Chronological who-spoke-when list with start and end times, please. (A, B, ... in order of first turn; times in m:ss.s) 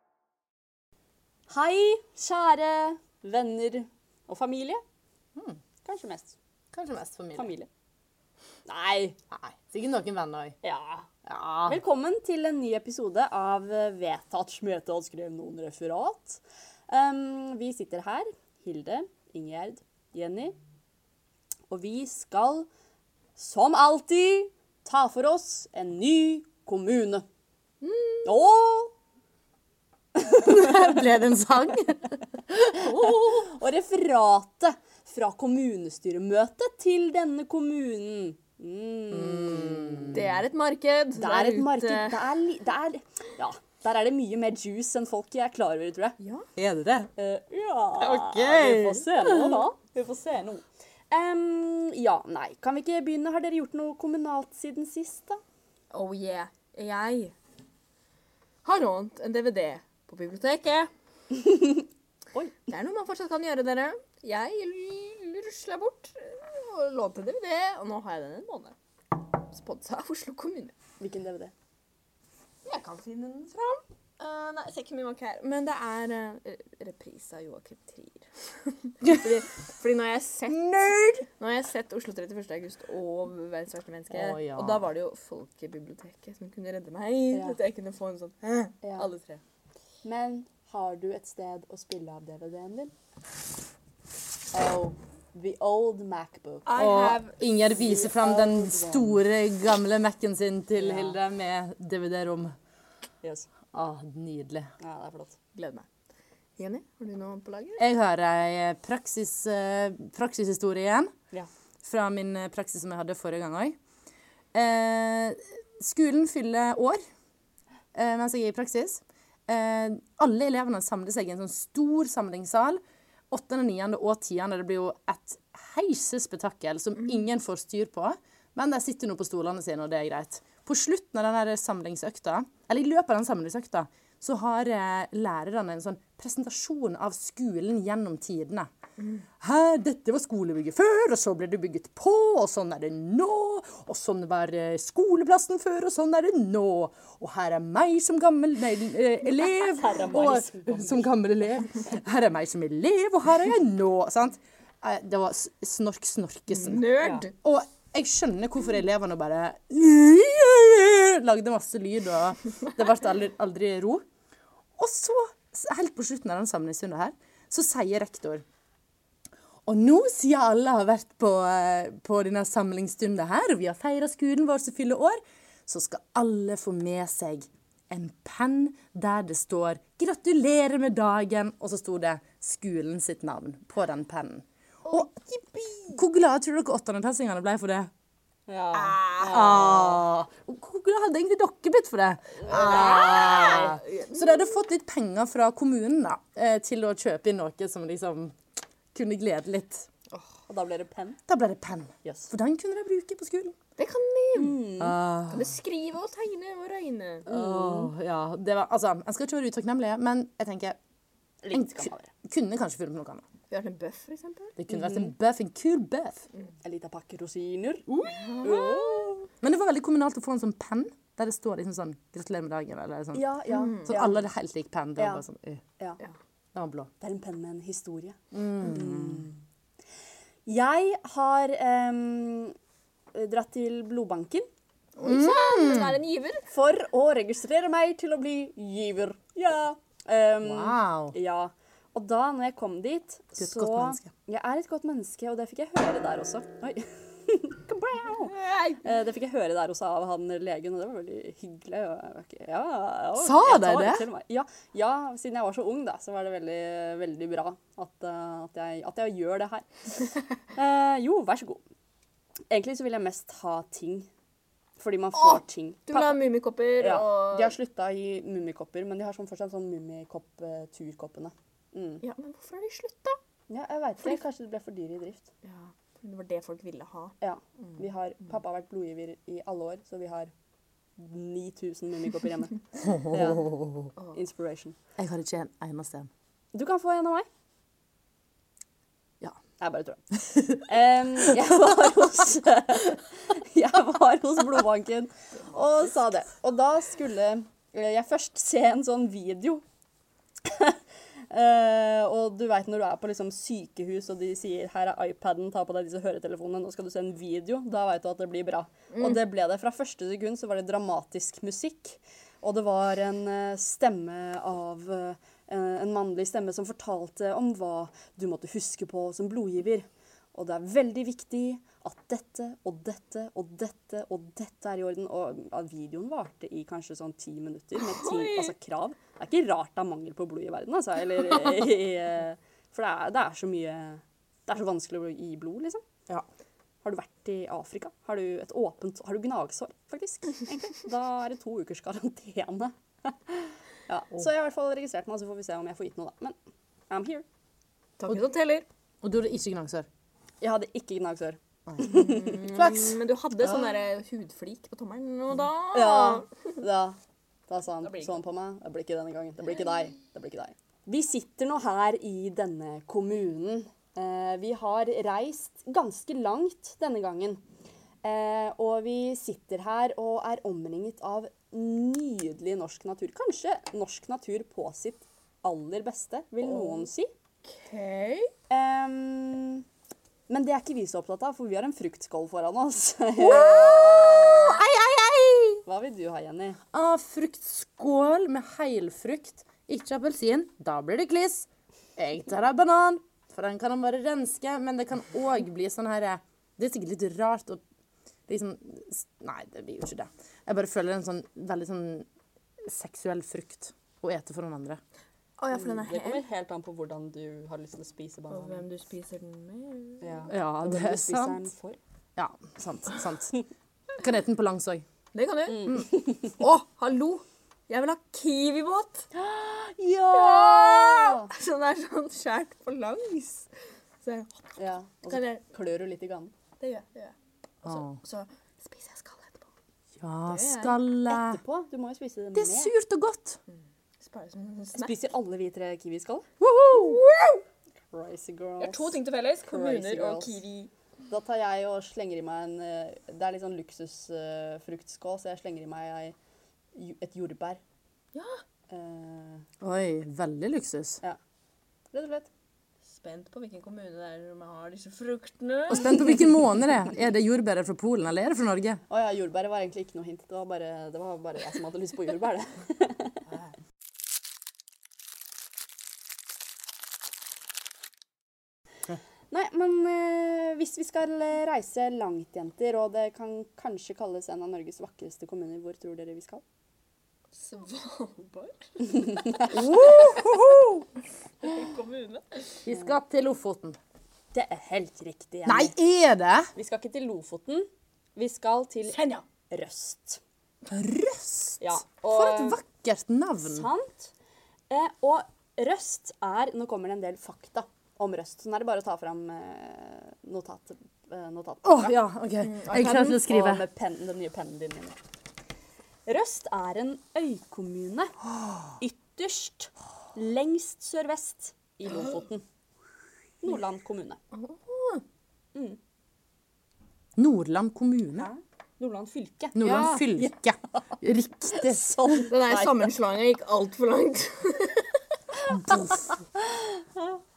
0:01.5-0:04.8 A
0:05.8-0:06.4 A
0:06.7-0:07.5 B
0:07.4-0:07.7 A
0:08.7-0:09.2 A
0:09.3-0:10.6 B
0:10.6-0:11.1 A
0:11.3-0:11.8 B
0:11.6-0:20.6 A
0:21.7-0:22.7 A
0:23.4-0:27.3 A
0:27.8-0:28.2 C
0:28.2-0:28.9 A
0:30.2-0:31.0 A
0:30.4-0:32.2 B
0:32.7-0:40.2 A
0:32.9-0:33.2 C
0:39.1-0:40.4 B
0:40.1-0:42.2 C
0:41.2-0:46.2 A
0:46.2-0:46.5 C
0:46.6-0:47.1 B
0:47.2-0:55.4 A
0:48.0-0:49.6 C
0:55.9-0:57.3 C
0:58.6-1:00.9 C
1:02.3-1:02.6 A
1:02.7-1:08.8 C
1:09.5-1:10.7 C
1:11.0-1:11.5 A
1:12.6-1:20.7 C
1:20.5-1:21.3 B
1:21.4-1:29.4 C
1:24.1-1:24.9 B
1:27.3-1:27.6 A
1:28.8-1:29.1 A
1:30.0-1:32.9 A
1:34.5-1:36.7 A
1:36.7-1:37.4 C
1:36.8-1:42.5 B
1:37.7-1:39.2 A
1:40.8-1:41.2 A
1:43.2-1:43.5 A
1:43.7-1:44.7 B
1:44.8-1:45.4 A
1:45.6-1:45.9 C
1:46.6-1:47.8 C
1:47.8-1:51.1 B
1:51.8-1:53.8 B
1:54.5-1:57.0 B
1:57.9-2:18.7 B
2:19.4-2:44.0 B
2:29.5-2:31.2 A
2:36.5-2:37.3 C
2:37.0-2:37.3 A
2:44.8-2:48.4 B
2:49.7-3:05.1 B
3:04.9-3:06.0 C
3:05.9-3:07.9 B
3:08.5-3:10.0 A
3:08.7-3:09.5 C
3:09.3-3:18.4 B
3:12.4-3:14.5 C
3:12.5-3:13.4 A
3:18.9-3:19.9 B
3:20.5-3:21.2 A
3:21.3-3:23.5 B
3:22.0-3:22.3 A
3:23.8-3:24.6 C
3:24.4-3:25.0 A
3:24.8-3:25.5 B
3:25.3-3:27.3 C
3:27.3-3:27.9 A
3:27.3-3:30.8 B
3:31.4-3:32.1 A
3:31.5-3:33.2 B
3:33.5-3:34.6 C
3:34.6-3:36.2 B
3:34.7-3:35.1 A
3:36.6-3:37.9 A
3:37.9-3:38.3 B
3:38.1-3:39.1 C
3:38.4-3:39.3 A
3:39.4-3:43.2 B
3:43.1-3:44.2 A
3:43.5-3:43.9 C
3:43.8-3:45.6 B
3:45.0-3:45.2 A
3:46.6-3:46.9 B
3:47.0-3:49.4 A
3:48.3-3:49.3 B
3:50.5-3:52.6 A
3:53.1-3:54.5 A
3:55.0-3:56.0 B
3:55.0-3:56.4 C
3:56.5-4:19.7 A
4:00.4-4:01.1 B
4:03.4-4:04.1 B
4:08.3-4:08.8 C
4:13.2-4:14.1 B
4:20.5-4:21.6 A
4:22.5-4:24.1 A
4:24.8-4:26.2 A
4:25.2-4:27.5 C
4:26.8-4:32.0 A
4:32.0-4:33.2 C
4:33.5-4:35.3 A
4:35.4-4:37.1 C
4:37.2-4:40.3 A
4:41.0-4:43.6 A
4:42.8-4:43.9 B
4:44.1-4:44.8 A
4:45.0-4:46.1 B
4:46.5-4:47.3 A
4:49.6-4:59.6 A
5:00.4-5:00.8 A
5:01.3-5:35.8 A
5:08.9-5:09.2 C
5:27.8-5:28.5 C
5:36.8-5:46.4 A
5:46.9-5:47.2 A
5:48.0-5:48.7 C
5:49.0-5:49.9 B
5:50.4-5:52.5 A
5:51.8-5:56.3 C
5:52.5-5:52.9 B
5:55.7-6:07.4 A
6:08.0-6:17.1 A
6:16.5-6:16.8 C
6:17.5-6:18.3 C
6:18.5-6:19.6 A
6:20.3-6:24.6 A
6:23.2-6:25.6 B
6:25.7-6:26.6 A
6:26.7-6:37.6 B
6:38.3-6:42.1 B
6:42.6-6:44.8 B
6:45.4-6:46.2 C
6:45.5-6:48.6 A
6:48.3-6:50.3 C
6:50.0-6:51.8 A
6:50.3-6:51.5 B
6:52.2-6:53.3 B
6:54.0-6:54.8 B
6:55.1-6:59.1 C
6:55.5-6:56.4 A
6:59.1-7:01.3 A
7:00.1-7:03.5 C
7:04.0-7:04.5 C
7:04.6-7:06.3 A
7:05.1-7:05.4 C
7:06.6-7:09.5 C
7:07.6-7:08.0 B
7:10.0-7:11.4 B
7:10.3-7:10.8 C
7:11.1-7:12.7 A
7:12.3-7:13.4 B
7:14.0-7:15.0 C
7:14.8-7:16.3 A
7:16.4-7:17.0 B
7:16.7-7:17.4 C
7:17.9-7:20.4 A
7:18.6-7:20.7 C
7:21.1-7:26.2 A
7:26.8-7:27.6 A
7:28.1-7:28.4 C
7:28.7-7:29.5 A
7:29.6-7:31.0 B
7:31.9-7:32.3 A
7:32.9-7:36.3 C
7:35.7-7:38.8 B
7:38.9-7:43.2 A
7:49.3-7:56.4 A
7:57.4-7:59.4 C
7:59.0-7:59.5 A
7:59.5-8:00.8 B
8:01.4-8:02.6 C
8:02.6-8:03.8 B
8:04.3-8:05.7 A
8:05.5-8:06.5 B
8:06.6-8:10.2 A
8:10.7-8:13.7 B
8:11.6-8:12.6 A
8:13.4-8:14.1 A
8:14.7-8:22.0 A
8:21.6-8:23.6 B
8:22.4-8:23.2 C
8:22.8-8:25.0 A
8:26.1-8:28.2 A
8:28.8-8:32.4 A
8:33.4-8:34.2 A
8:34.3-8:35.0 C
8:37.2-8:38.3 B
8:38.2-8:41.0 A
8:39.6-8:41.9 B
8:41.5-8:42.9 A
8:42.3-8:44.9 C
8:45.4-8:47.2 A
8:45.5-8:46.0 B